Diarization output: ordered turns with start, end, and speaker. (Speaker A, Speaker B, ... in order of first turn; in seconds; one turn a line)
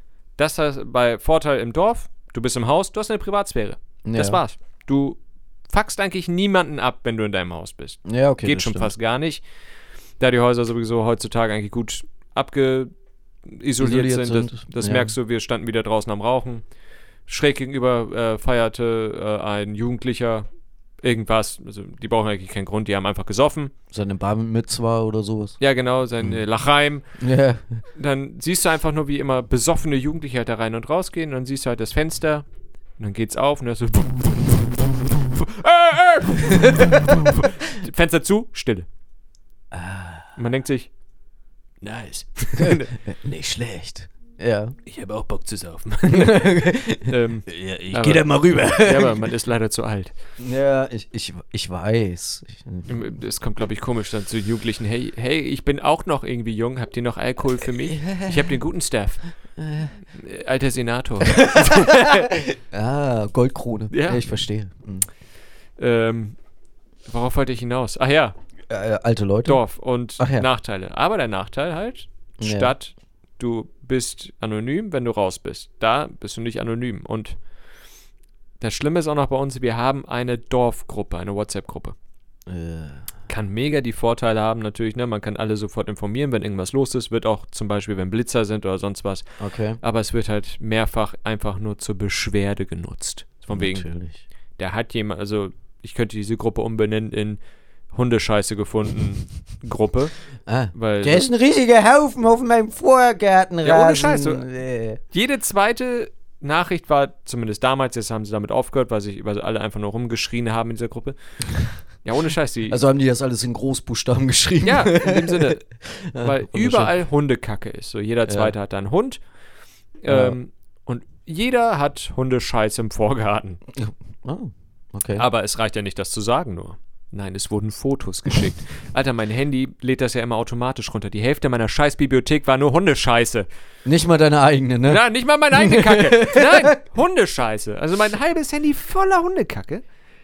Speaker A: 0.4-9.4
Speaker B: 4.0-4.4
Speaker B: 8.1-8.9
Speaker A: 10.2-12.9
Speaker A: 13.5-16.6
Speaker B: 13.8-15.1
Speaker A: 17.3-20.5
Speaker A: 21.0-23.7
Speaker B: 23.9-25.6
Speaker A: 25.6-27.0
Speaker B: 27.2-27.8
Speaker A: 27.9-32.4
Speaker A: 33.0-38.9
Speaker B: 36.5-37.3
Speaker B: 39.7-40.3
Speaker A: 40.4-40.9
Speaker A: 41.8-42.9
Speaker B: 42.5-44.8
Speaker A: 44.9-50.1
Speaker B: 46.1-49.3
Speaker B: 50.4-53.0
Speaker A: 52.9-59.2
Speaker B: 57.8-58.6
Speaker B: 59.6-59.9
Speaker A: 60.1-62.3
Speaker B: 61.2-65.1
Speaker A: 63.9-64.2
Speaker A: 65.8-66.4
Speaker A: 67.0-68.3
Speaker B: 68.7-69.6
Speaker A: 69.5-77.4
Speaker B: 70.2-70.5
Speaker B: 72.4-72.7
Speaker A: 78.6-82.0
Speaker B: 82.5-83.1
Speaker A: 83.3-89.2
Speaker B: 89.4-89.8
Speaker A: 89.8-93.8
Speaker B: 93.5-94.2
Speaker A: 94.6-97.4
Speaker A: 97.9-100.1
Speaker B: 100.5-105.0
Speaker A: 100.7-101.3
Speaker A: 103.6-104.5
Speaker A: 105.1-111.2
Speaker A: 112.0-112.8
Speaker B: 112.7-116.9
Speaker A: 114.6-115.6
Speaker A: 116.2-119.2
Speaker B: 118.2-118.5
Speaker A: 120.0-123.6
Speaker B: 120.1-120.4
Speaker B: 123.7-125.2
Speaker A: 125.1-133.5
Speaker B: 133.8-136.8
Speaker A: 134.8-139.8